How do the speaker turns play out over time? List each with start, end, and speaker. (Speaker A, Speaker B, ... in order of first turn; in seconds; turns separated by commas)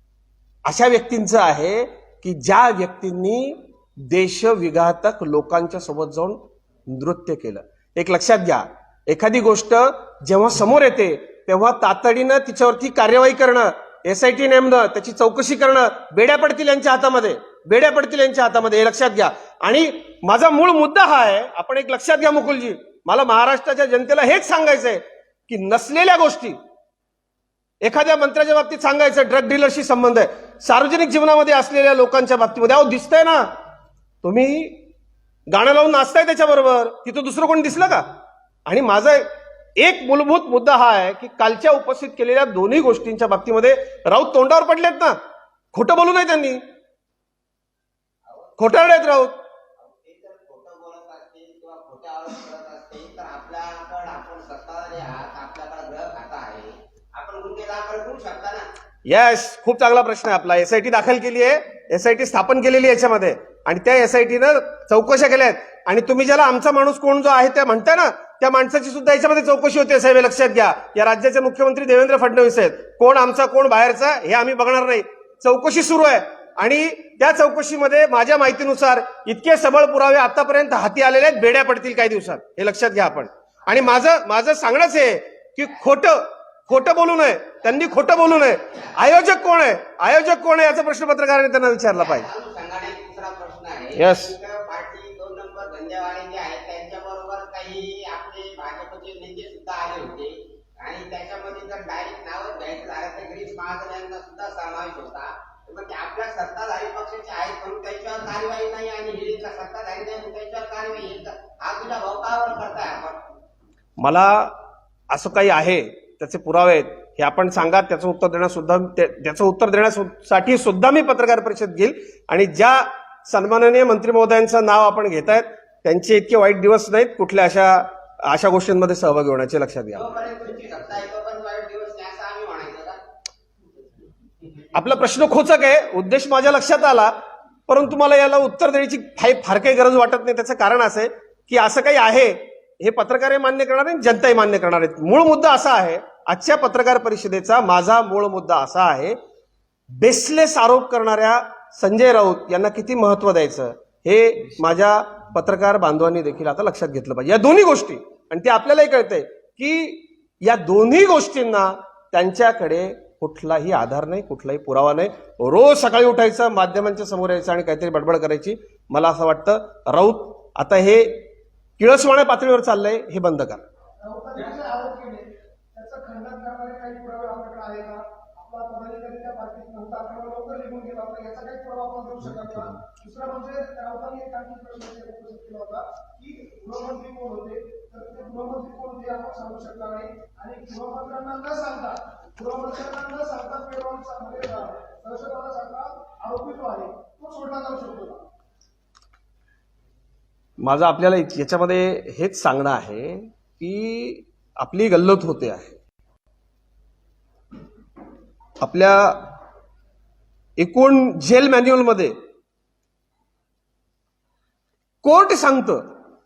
Speaker A: 0.6-26.6, Speaker A: 27.8-33.5, Speaker A: 34.2-34.8, Speaker A: 35.5-45.2, Speaker A: 45.7-46.6, Speaker B: 48.3-48.8, Speaker A: 48.6-49.4, Speaker B: 49.8-58.6, Speaker A: 59.0-92.3, Speaker B: 87.9-88.9, Speaker B: 92.0-113.2, Speaker A: 93.9-94.3, Speaker A: 114.0-114.6, Speaker A: 115.1-130.1, Speaker B: 129.9-133.0, Speaker A: 134.7-149.2, Speaker A: 149.9-171.3, Speaker A: 171.8-173.6, Speaker C: 174.0-198.2, Speaker A: 200.6-205.8, Speaker A: 208.6-209.3, Speaker A: 210.6-212.2, Speaker A: 215.0-215.9